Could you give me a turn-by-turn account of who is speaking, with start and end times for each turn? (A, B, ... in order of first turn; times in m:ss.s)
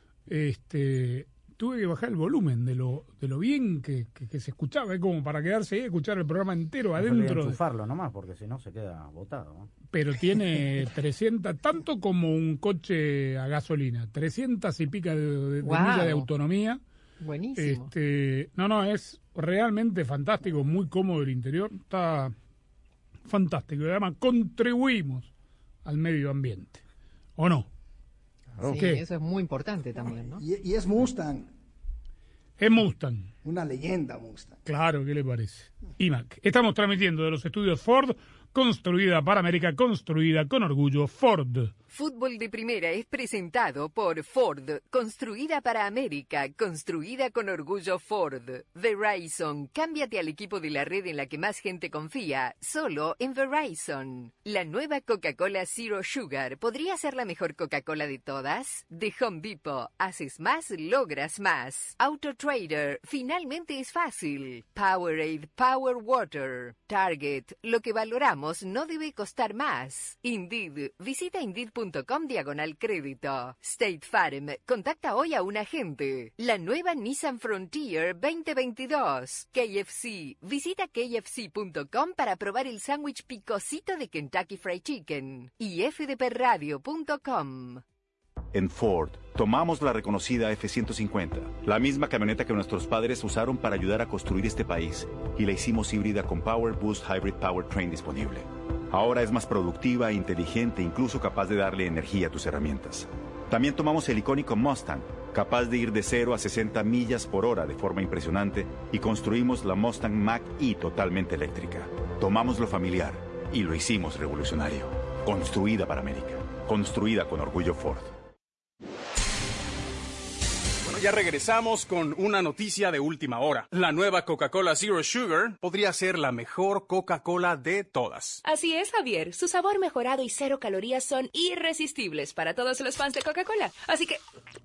0:00.3-0:07.6 A
0:07.0-0:09.7 B
0:09.9-0:16.8 A
0:15.6-0:16.3 C
0:17.2-0:17.9 C
0:17.6-0:22.3 A
0:23.3-0:25.3 A
0:25.8-0:26.8 A
0:27.4-0:27.7 A
0:28.6-0:30.4 C
0:28.7-0:29.0 A
0:30.4-0:31.5 D
0:32.6-0:33.3 A
0:33.4-0:34.6 D
0:34.6-0:41.7 A
0:41.9-1:27.8 E
1:28.5-1:58.1 F
2:00.8-2:08.4 G
2:08.4-2:14.2 H